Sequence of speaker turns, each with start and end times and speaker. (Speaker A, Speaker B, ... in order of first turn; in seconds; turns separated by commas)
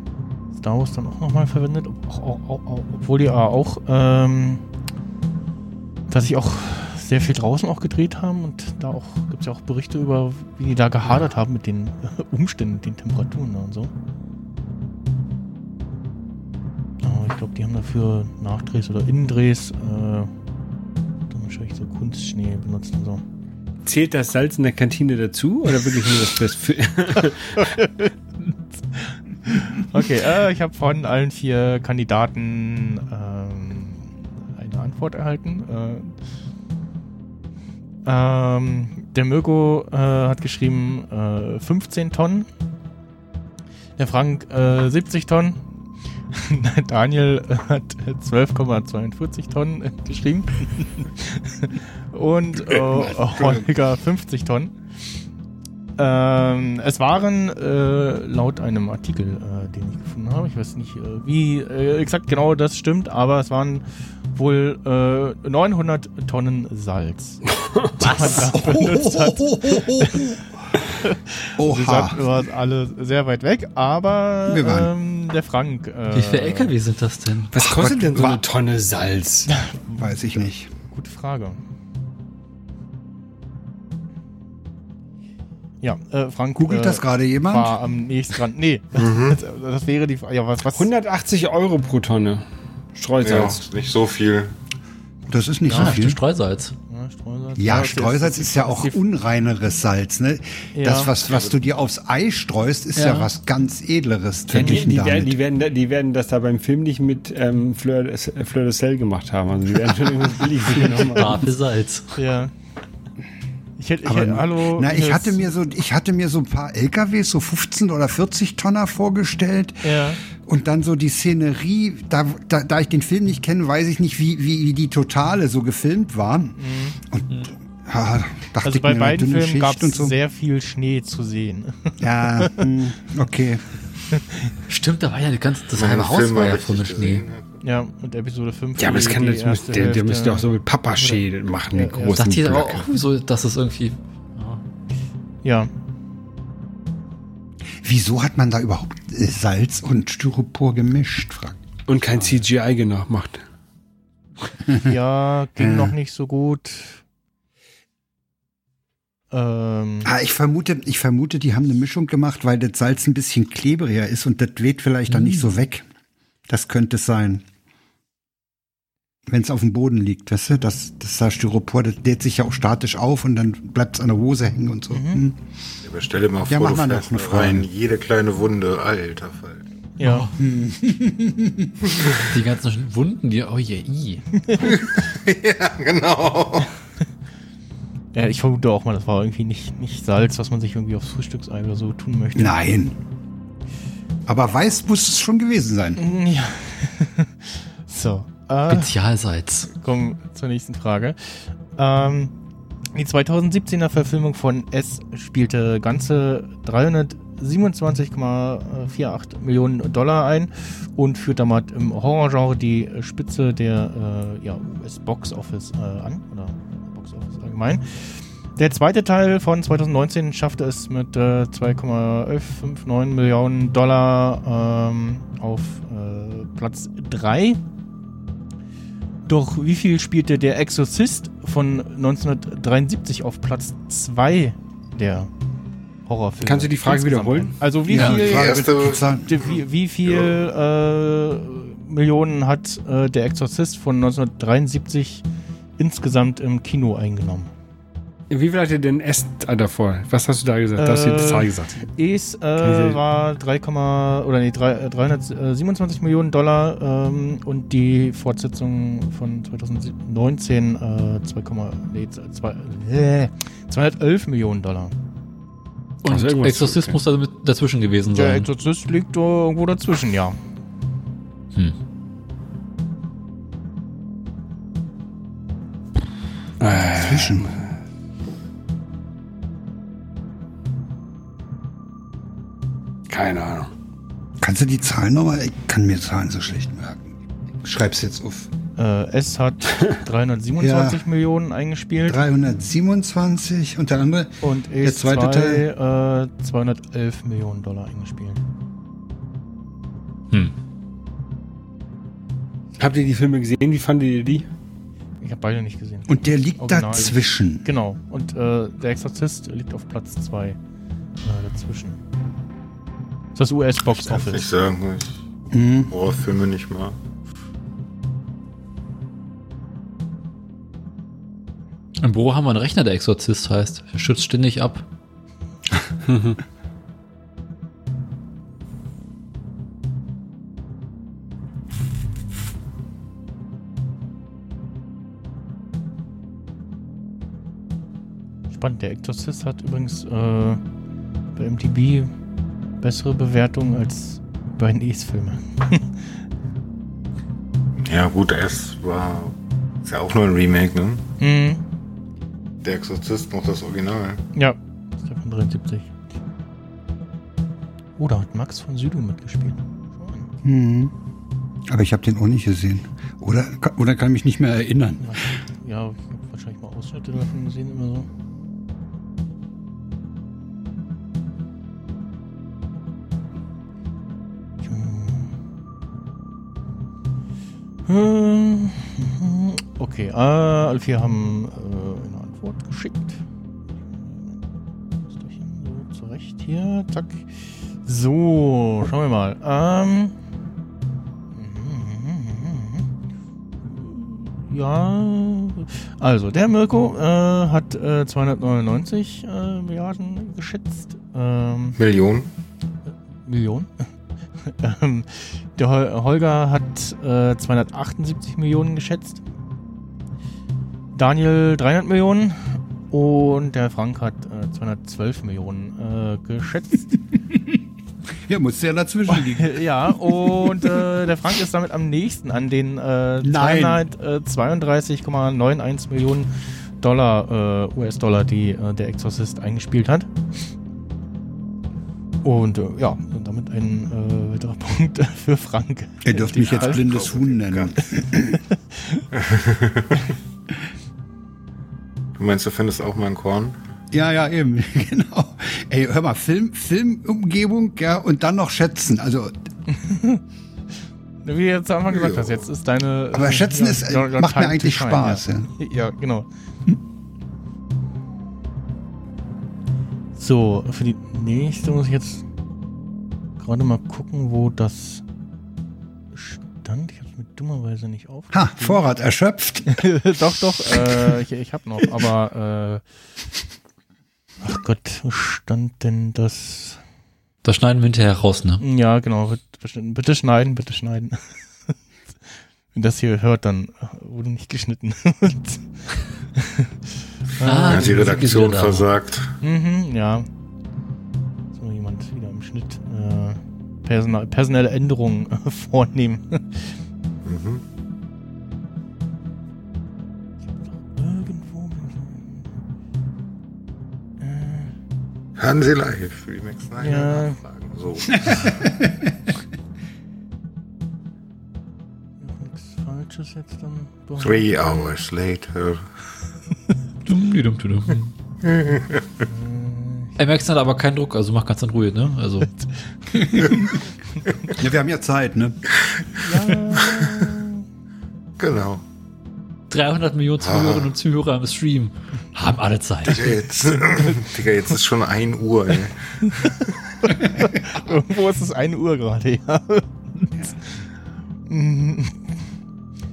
Speaker A: 0.6-4.6, Speaker A: 6.1-13.9, Speaker A: 17.0-20.3, Speaker A: 21.3-23.2, Speaker B: 23.9-27.8, Speaker A: 27.8-28.1, Speaker A: 28.9-36.1, Speaker A: 38.0-42.5, Speaker A: 44.0-45.6, Speaker A: 46.3-54.7, Speaker A: 56.0-67.4, Speaker B: 67.6-68.2, Speaker A: 68.0-70.4, Speaker C: 68.2-70.5, Speaker A: 70.9-76.7, Speaker C: 71.6-72.3, Speaker C: 74.5-74.9, Speaker D: 76.1-77.5, Speaker B: 77.5-79.5, Speaker C: 77.6-78.4, Speaker A: 79.5-81.6, Speaker C: 80.0-80.7, Speaker A: 85.8-90.9, Speaker C: 86.6-87.8, Speaker E: 88.9-89.4, Speaker B: 90.7-92.4, Speaker B: 93.0-93.7, Speaker E: 93.2-94.5, Speaker C: 95.3-96.2, Speaker A: 95.7-96.1, Speaker D: 95.7-96.8, Speaker A: 96.9-99.0, Speaker C: 97.6-105.3, Speaker A: 100.7-101.1, Speaker E: 101.3-101.6, Speaker D: 103.0-103.3, Speaker A: 104.5-104.9, Speaker B: 104.5-111.5, Speaker D: 110.8-112.1, Speaker A: 112.2-112.5, Speaker A: 113.8-115.5, Speaker C: 114.0-130.2, Speaker A: 119.8-120.2, Speaker A: 126.6-127.0, Speaker A: 128.6-132.7, Speaker C: 132.0-133.7, Speaker A: 134.1-134.5, Speaker D: 134.7-137.2, Speaker E: 135.8-137.4, Speaker A: 137.6-142.2, Speaker B: 138.8-142.9, Speaker D: 142.2-144.6, Speaker A: 145.4-145.7, Speaker C: 147.8-151.6, Speaker B: 151.9-153.4, Speaker A: 154.8-157.0, Speaker C: 155.6-155.9, Speaker A: 159.3-160.1, Speaker C: 160.1-165.9, Speaker C: 166.5-167.4, Speaker C: 169.3-175.4, Speaker A: 174.9-175.2, Speaker E: 175.8-179.7, Speaker C: 176.5-177.7, Speaker A: 180.0-180.3, Speaker D: 180.0-180.3, Speaker C: 180.3-181.8, Speaker D: 182.1-184.3, Speaker E: 184.6-186.7, Speaker A: 188.1-192.6, Speaker C: 192.4-193.0, Speaker C: 194.3-196.0, Speaker A: 196.0-198.9, Speaker D: 198.7-199.7, Speaker A: 199.7-202.3, Speaker A: 202.9-227.6, Speaker A: 229.3-235.3, Speaker A: 236.1-238.7, Speaker B: 236.4-237.6, Speaker C: 237.9-239.4, Speaker E: 237.9-239.5, Speaker A: 239.2-245.2, Speaker A: 245.8-247.5, Speaker B: 248.3-251.9, Speaker A: 250.8-264.9, Speaker B: 252.6-253.0, Speaker D: 266.0-268.5, Speaker B: 266.1-267.0, Speaker A: 268.1-270.4, Speaker B: 276.6-277.6, Speaker C: 276.9-277.5, Speaker B: 283.1-283.7, Speaker C: 284.4-288.5, Speaker A: 288.8-292.2, Speaker C: 290.6-291.0, Speaker C: 292.1-295.7, Speaker A: 294.4-298.4, Speaker B: 302.8-304.5, Speaker A: 305.2-310.6, Speaker C: 306.1-307.7, Speaker A: 311.2-312.0, Speaker A: 313.4-314.5, Speaker E: 313.9-315.2, Speaker C: 315.5-315.9, Speaker E: 315.9-317.0, Speaker D: 322.0-324.9, Speaker B: 326.1-326.4, Speaker A: 338.5-340.6, Speaker A: 341.4-342.1, Speaker A: 342.8-345.9, Speaker E: 347.8-351.1, Speaker A: 351.2-351.6, Speaker E: 352.6-354.2, Speaker A: 354.4-355.9, Speaker A: 358.0-360.3, Speaker C: 360.4-360.9, Speaker C: 361.7-365.2, Speaker A: 365.0-368.1, Speaker A: 374.6-375.3, Speaker A: 377.9-383.2, Speaker A: 383.9-384.4, Speaker A: 385.1-387.3, Speaker A: 387.8-390.1, Speaker A: 391.3-392.9, Speaker A: 393.6-401.8, Speaker E: 401.8-402.3, Speaker A: 403.2-403.7, Speaker A: 404.4-409.2, Speaker A: 410.9-417.0, Speaker C: 418.2-420.9, Speaker A: 419.1-426.3, Speaker C: 423.2-423.8, Speaker A: 426.8-430.1, Speaker A: 432.2-436.9, Speaker C: 436.0-438.4, Speaker E: 436.4-437.8, Speaker A: 438.5-439.0, Speaker E: 439.1-440.1, Speaker E: 442.2-443.6, Speaker C: 443.9-449.3, Speaker A: 449.7-450.2, Speaker A: 451.2-456.3, Speaker E: 451.9-452.4, Speaker C: 453.1-455.5, Speaker A: 460.2-462.2, Speaker A: 463.4-465.0, Speaker A: 466.1-468.9, Speaker C: 468.3-469.9, Speaker A: 469.7-472.8, Speaker A: 474.4-476.8, Speaker D: 477.4-478.6, Speaker A: 478.6-481.7, Speaker A: 482.7-485.6, Speaker A: 486.4-486.7, Speaker A: 487.4-488.3, Speaker D: 487.4-488.9, Speaker E: 487.7-489.3, Speaker A: 489.4-490.3, Speaker A: 491.5-496.7, Speaker E: 497.2-497.6, Speaker A: 500.8-502.5, Speaker A: 504.2-504.7, Speaker E: 505.4-508.7, Speaker A: 506.8-507.4, Speaker C: 508.3-509.0, Speaker A: 512.2-514.9, Speaker E: 514.2-515.9, Speaker D: 517.1-518.1, Speaker E: 518.4-519.1, Speaker A: 519.3-520.2, Speaker D: 520.2-522.5, Speaker A: 523.1-523.7, Speaker C: 524.5-525.6, Speaker A: 526.2-527.6, Speaker E: 526.7-527.3, Speaker E: 528.4-528.8, Speaker D: 529.7-533.5, Speaker E: 530.4-530.9, Speaker E: 533.1-536.8, Speaker A: 537.0-540.4, Speaker A: 541.5-542.2